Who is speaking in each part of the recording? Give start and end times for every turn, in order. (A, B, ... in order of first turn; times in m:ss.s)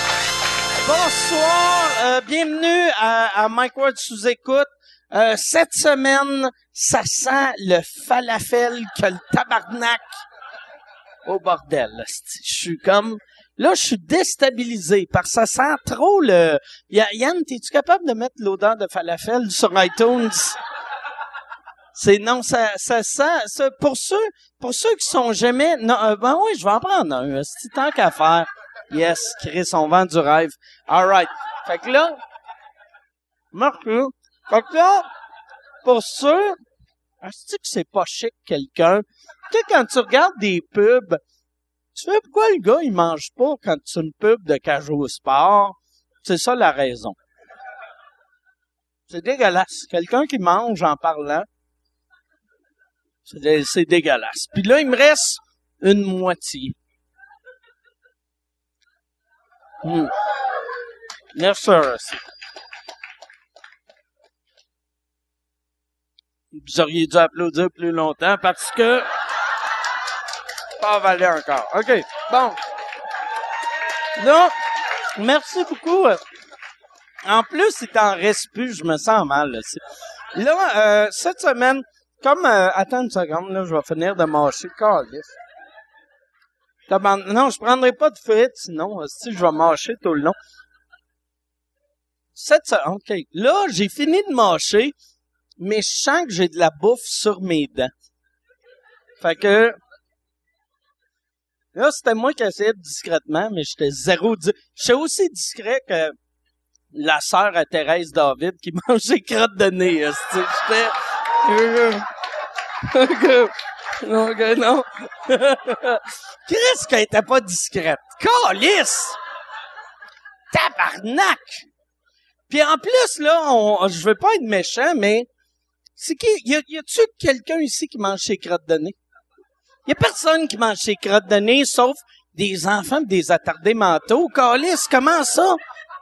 0:00.8-0:10.2 A
0:11.2-0:20.6 A
0:21.9-0:32.2 A
0:33.5-0:35.1 A
0:35.8-0:36.6 A
0:37.2-0:41.2 A
0:41.9-0:47.2 A
0:49.1-0:51.5 A
0:53.2-0:56.8 A
0:59.8-1:00.1 A
1:01.3-1:02.2 A
1:06.5-1:09.1 A
1:10.8-1:12.6 A
1:14.2-1:14.5 A
1:15.2-1:16.2 A
1:17.2-1:19.8 A
1:20.3-1:25.3 A
1:26.9-1:30.3 A
1:32.3-1:34.9 A
1:35.6-1:37.9 A
1:39.2-1:39.8 A
1:41.7-1:46.1 A
1:46.9-1:52.1 A
1:52.8-1:59.2 A
2:00.5-2:01.6 A
2:02.5-2:05.3 A
2:06.0-2:09.0 A
2:09.8-2:15.6 A